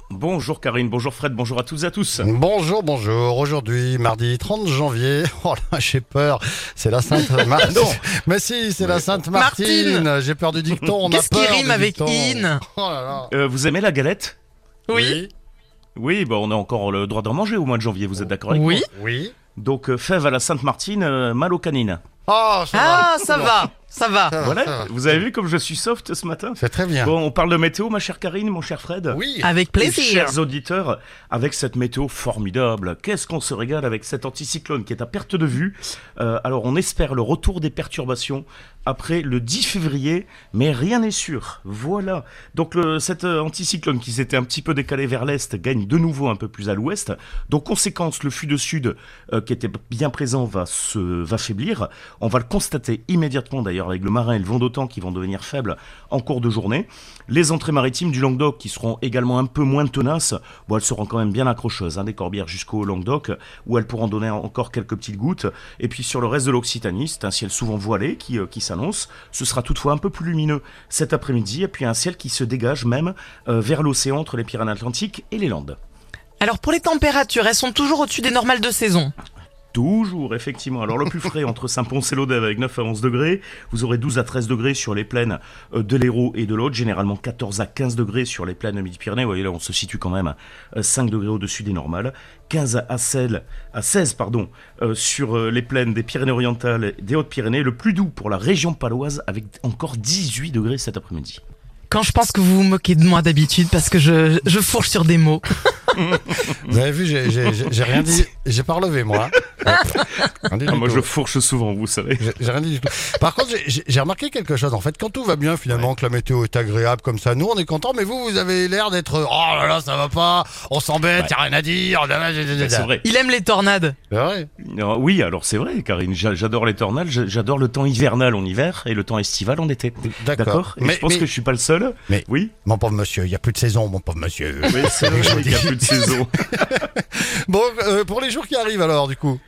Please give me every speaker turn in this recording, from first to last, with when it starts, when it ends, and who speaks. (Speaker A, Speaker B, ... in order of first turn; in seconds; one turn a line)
Speaker A: 0.1-2.3
Speaker B: 2.2-13.3
Speaker A: 7.6-8.1
Speaker A: 8.8-9.2
Speaker C: 9.3-10.1
Speaker C: 11.1-12.6
Speaker A: 13.3-14.4
Speaker C: 14.9-15.2
Speaker B: 14.9-15.3
Speaker A: 16.0-18.9
Speaker C: 18.5-18.9
Speaker B: 18.9-19.3
Speaker A: 19.6-22.0
Speaker B: 22.3-23.7
Speaker C: 22.7-24.3
Speaker B: 24.3-24.9
Speaker A: 24.4-29.2
Speaker B: 26.6-27.1
Speaker B: 29.1-29.5
Speaker C: 29.4-30.3
Speaker A: 29.8-75.8
Speaker C: 76.4-79.1
Speaker A: 79.7-101.4
Speaker C: 101.9-105.9
Speaker A: 106.0-106.8
Speaker B: 106.7-111.1
Speaker A: 109.5-112.3
Speaker B: 112.2-122.9
Speaker A: 122.5-123.0
Speaker C: 123.0-124.0
Speaker B: 124.1-124.5
Speaker A: 124.6-132.5
Speaker B: 130.1-131.3
Speaker B: 132.1-139.4
Speaker A: 134.7-136.7